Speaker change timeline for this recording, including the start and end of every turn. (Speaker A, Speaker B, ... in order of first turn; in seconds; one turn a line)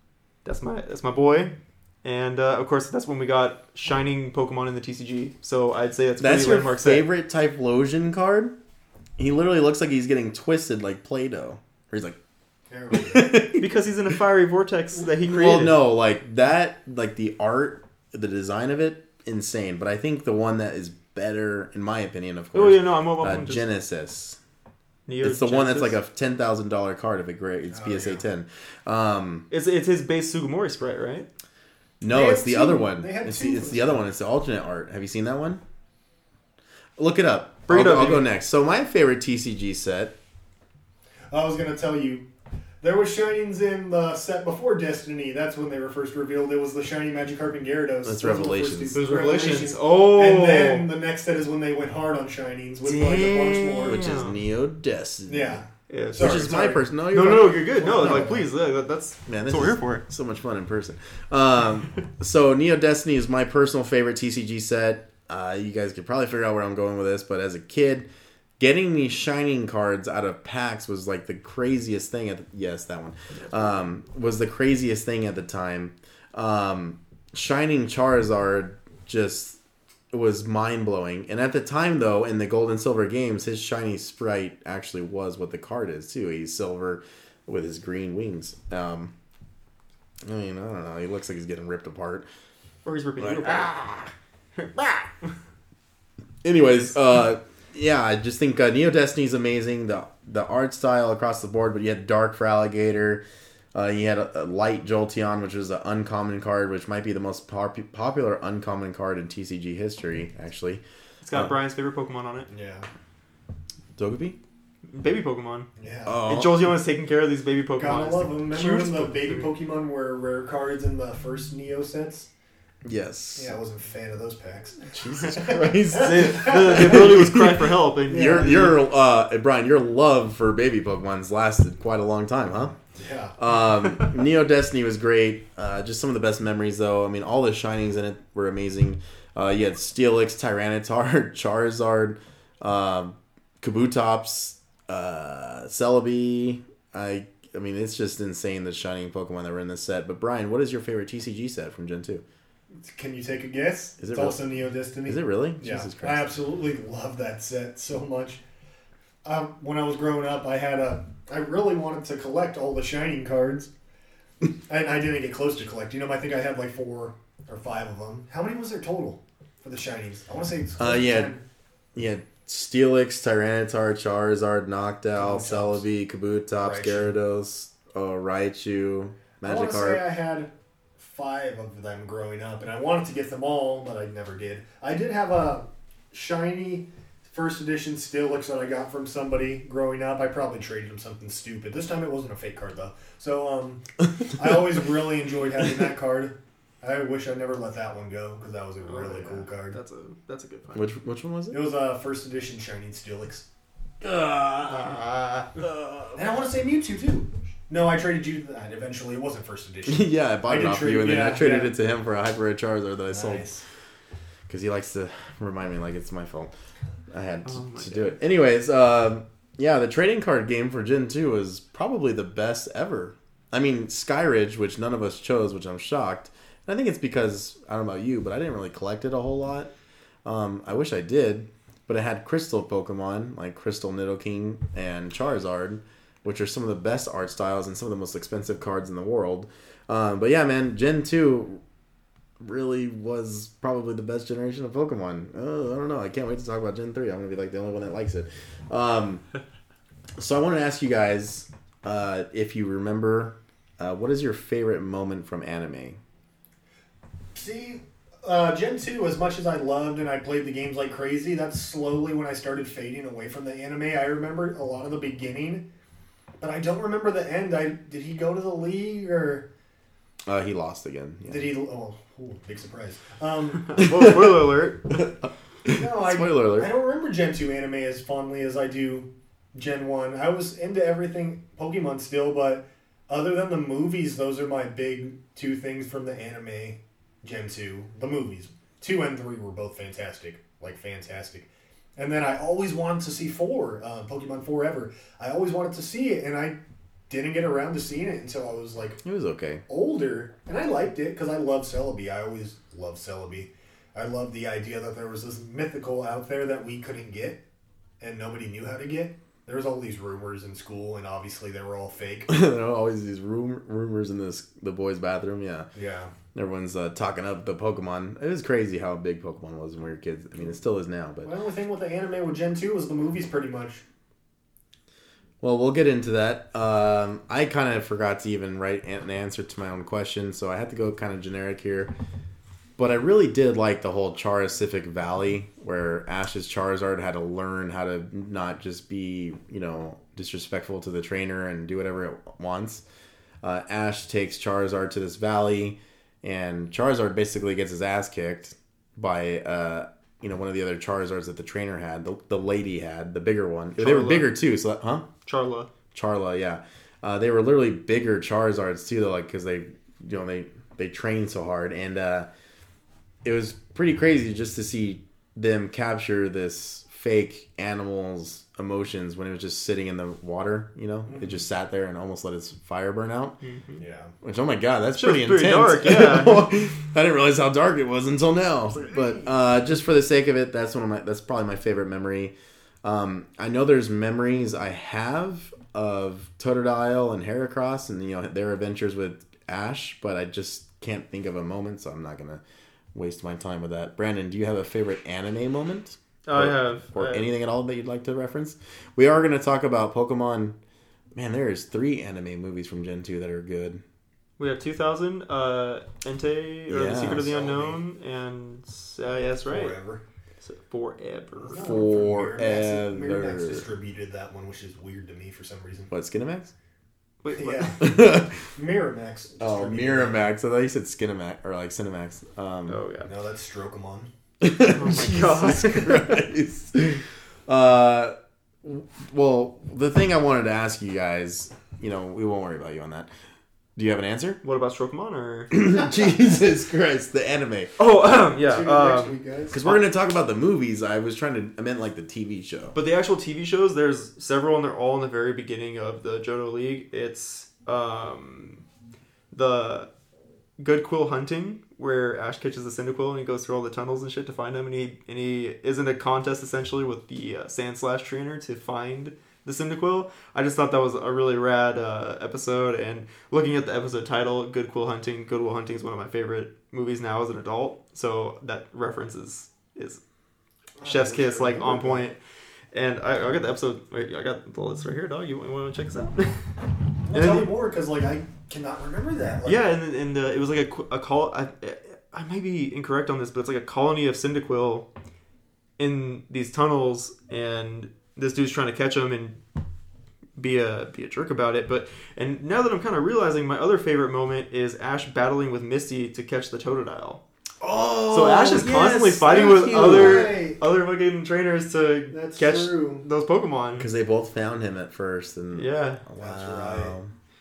Speaker A: 0.4-7.1
Speaker B: 6.2-8.5
Speaker B: 9.2-12.2
Speaker C: 12.7-13.4
Speaker B: 12.9-13.7
Speaker A: 13.6-15.8
Speaker B: 15.3-24.4
Speaker A: 22.5-23.6
Speaker A: 25.1-26.0
Speaker B: 25.2-29.5
Speaker C: 27.7-28.2
Speaker A: 29.5-31.3
Speaker B: 32.0-35.6
Speaker C: 32.1-34.0
Speaker B: 37.0-40.1
Speaker A: 37.7-38.2
Speaker C: 41.3-42.3
Speaker C: 42.8-54.2
Speaker B: 48.0-49.1
Speaker A: 48.9-50.9
Speaker B: 52.9-55.6
Speaker A: 53.7-54.4
Speaker C: 55.3-56.9
Speaker A: 55.9-56.5
Speaker B: 56.2-58.5
Speaker A: 57.1-60.0
Speaker C: 57.7-58.4
Speaker B: 59.3-68.1
Speaker B: 68.6-79.6
Speaker B: 80.1-89.1
Speaker B: 90.2-92.3
Speaker A: 92.8-93.8
Speaker B: 93.2-94.1
Speaker B: 94.8-95.1
Speaker B: 96.4-110.8
Speaker A: 111.2-112.5
Speaker C: 112.5-112.9
Speaker B: 114.0-114.4
Speaker A: 114.9-115.7
Speaker C: 115.8-116.2
Speaker B: 116.0-116.7
Speaker A: 116.3-119.5
Speaker C: 117.8-122.3
Speaker B: 122.8-123.5
Speaker C: 123.3-127.2
Speaker B: 124.9-132.8
Speaker A: 125.9-128.8
Speaker C: 128.1-128.7
Speaker C: 132.9-133.3
Speaker B: 133.4-152.2
Speaker C: 152.7-158.4
Speaker B: 154.0-154.4
Speaker B: 155.0-156.3
Speaker C: 159.2-163.7
Speaker C: 164.7-171.4
Speaker B: 170.8-171.3
Speaker B: 171.9-180.0
Speaker C: 175.2-175.8
Speaker C: 176.6-177.2
Speaker C: 179.4-199.8
Speaker A: 198.8-200.9
Speaker B: 200.7-201.6
Speaker C: 201.5-203.4
Speaker B: 204.0-205.0
Speaker C: 204.7-205.6
Speaker B: 205.6-206.2
Speaker C: 206.1-211.7
Speaker B: 209.8-213.5
Speaker C: 213.1-213.6
Speaker B: 214.5-216.5
Speaker B: 217.1-229.7
Speaker A: 217.4-218.2
Speaker B: 230.2-241.6
Speaker B: 242.4-249.2
Speaker B: 250.2-256.0
Speaker C: 257.3-265.7
Speaker C: 266.4-269.5
Speaker B: 270.3-271.5
Speaker C: 271.2-273.9
Speaker A: 273.7-275.1
Speaker B: 273.8-274.3
Speaker B: 274.9-276.7
Speaker C: 275.7-299.0
Speaker B: 299.0-299.6
Speaker C: 299.7-307.4
Speaker C: 308.0-312.3
Speaker B: 312.3-315.7
Speaker C: 315.7-316.1
Speaker B: 316.3-321.3
Speaker C: 321.2-323.8
Speaker B: 325.4-331.9
Speaker B: 332.8-342.8
Speaker B: 343.4-355.1
Speaker A: 353.8-354.3
Speaker A: 355.2-355.7
Speaker B: 355.9-362.3
Speaker B: 363.2-373.4
Speaker C: 371.1-371.4
Speaker A: 373.4-373.8
Speaker C: 373.8-374.1
Speaker B: 374.2-392.4
Speaker A: 375.0-376.5
Speaker C: 378.7-379.4
Speaker B: 392.9-400.6
Speaker A: 396.2-397.3
Speaker B: 401.1-403.8
Speaker A: 404.4-409.8
Speaker B: 406.7-407.3
Speaker C: 407.1-407.8
Speaker C: 409.5-410.0
Speaker A: 410.4-411.8
Speaker C: 411.4-415.9
Speaker B: 411.6-413.6
Speaker B: 415.9-416.5
Speaker A: 417.2-417.8
Speaker C: 417.3-417.9
Speaker B: 417.8-418.5
Speaker C: 418.5-420.2
Speaker B: 419.4-422.8
Speaker A: 422.7-423.1
Speaker C: 423.0-424.1
Speaker B: 424.4-433.1
Speaker A: 424.6-426.2
Speaker B: 433.8-434.4
Speaker A: 434.4-435.5
Speaker B: 435.5-437.7
Speaker C: 435.7-436.1
Speaker A: 437.8-439.8
Speaker C: 438.4-439.6
Speaker B: 439.5-442.8
Speaker A: 442.7-448.6
Speaker A: 449.3-449.9
Speaker A: 450.6-470.0
Speaker C: 470.8-472.0
Speaker A: 470.8-472.2
Speaker A: 472.7-476.4
Speaker C: 477.0-479.7
Speaker A: 477.1-477.5
Speaker A: 479.4-484.9
Speaker A: 485.8-489.4
Speaker A: 490.4-497.2
Speaker B: 497.6-500.3
Speaker A: 498.1-503.9
Speaker C: 499.2-500.6
Speaker C: 502.1-503.0
Speaker B: 503.8-507.1
Speaker A: 505.5-506.0
Speaker C: 506.2-506.9